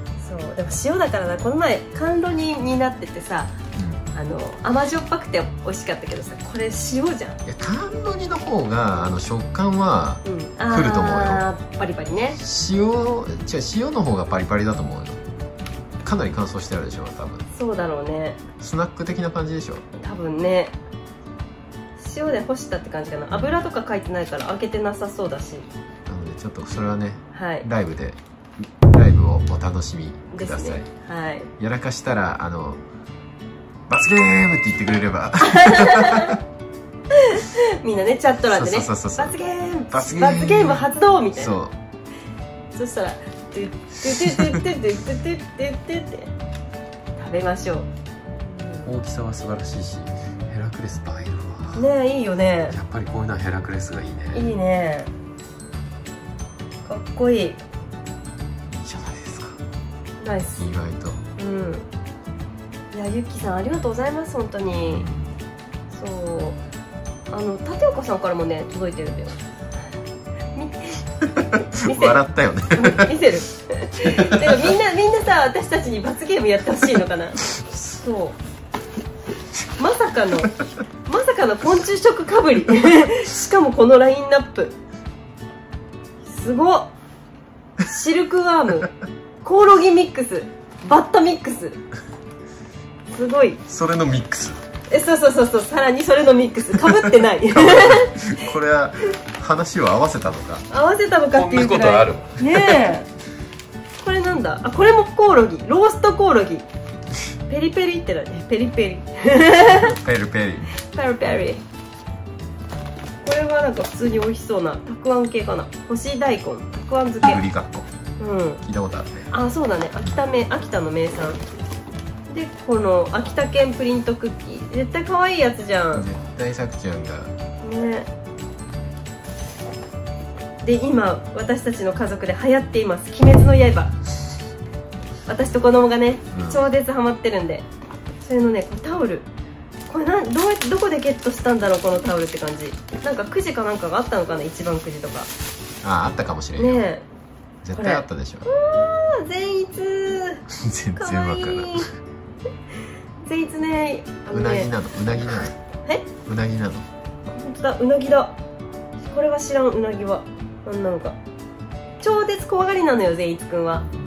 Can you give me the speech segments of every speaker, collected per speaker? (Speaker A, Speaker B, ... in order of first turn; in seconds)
Speaker A: 0.2-3.5, 4.1-7.4, 10.2-12.4, 17.5-18.4, 20.0-20.8, 22.0-25.7, 27.3-27.7, 30.3-31.5, 35.4-36.4, 37.1-41.6, 42.7-46.3, 47.2-47.9, 48.5-48.9, 51.8-52.8, 54.3-55.1, 56.9-57.6, 60.2-60.6, 61.4-61.9, 62.9-65.1, 65.9-66.6, 67.3-69.4, 70.5-71.0, 71.5-72.2, 72.7-78.4, 79.8-84.8, 86.2-86.9, 87.8-88.9, 89.4-91.8, 93.1-93.6, 94.9-98.3, 100.7-103.1, 104.0-106.7, 107.5-110.0, 110.8-111.6, 113.2-117.4, 118.2-118.6, 119.3-121.4, 122.3-126.1, 127.6-128.1, 130.6-133.9, 135.3-137.7, 138.2-139.3, 139.9-145.3, 146.6-147.0, 147.8-150.4, 151.0-151.9, 153.2-154.7, 155.3-156.1, 157.3-158.3, 159.1-161.2, 162.0-163.9
Speaker B: 3.8-4.1, 7.5-11.5, 12.4-15.2, 16.0-17.5, 18.6-19.9, 23.3-23.6, 26.1-30.9, 31.6-32.8, 33.9-36.4, 38.5-39.4, 39.9-41.7, 44.3-44.6, 48.9-51.9, 52.7-54.5, 58.7-59.6, 60.6-61.2, 64.7-65.4, 71.2-73.2, 74.0-74.7, 93.7-94.6, 96.8-100.7, 101.3-102.9, 109.7-110.7, 117.2-117.9, 118.6-119.3, 125.9-127.3, 136.3-136.7, 145.8-146.9, 147.6-148.5, 150.5-151.8, 154.3-155.6, 156.3-156.9